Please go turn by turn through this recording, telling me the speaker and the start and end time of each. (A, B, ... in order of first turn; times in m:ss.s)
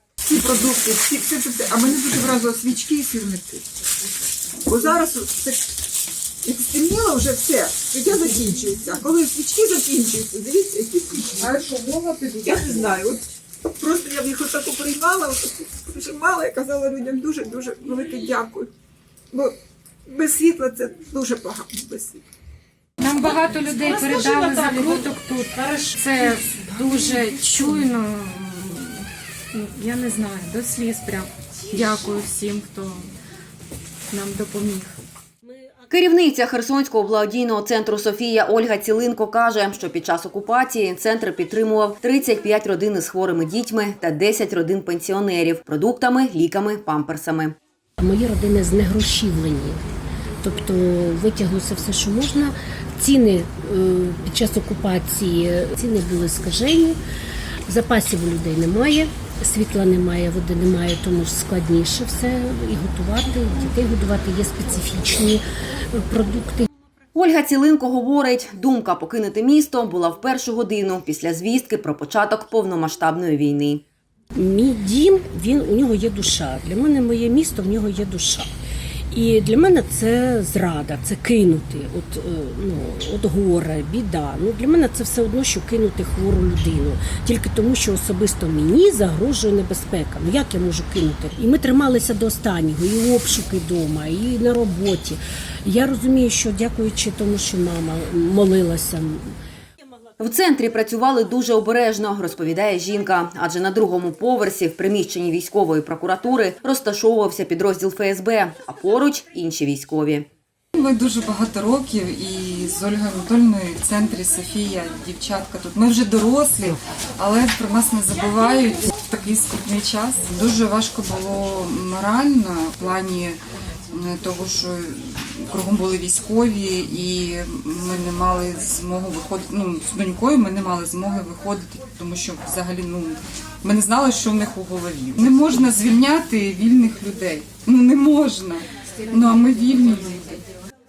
0:00.3-0:03.6 A
0:00.5-0:01.1 B
0:04.7-0:05.6 A
0:06.4-0:11.5 A
0:11.4-0:12.9 B
0:12.4-0:13.2 A
0:13.8-0:18.7 A
0:20.1-0:22.2 A
0:23.0-0:33.1 C
0:24.4-0:24.8 B
0:34.1-0:35.0 C
0:35.9-0:47.6 D
0:48.0-0:49.8 E
0:50.4-0:57.0 E
0:57.7-1:06.7 E
1:07.2-1:13.8 D
1:14.4-1:18.5 E
1:19.1-1:39.3 E
1:40.2-1:50.3 D
1:50.8-2:03.4 B
2:03.9-2:20.4 B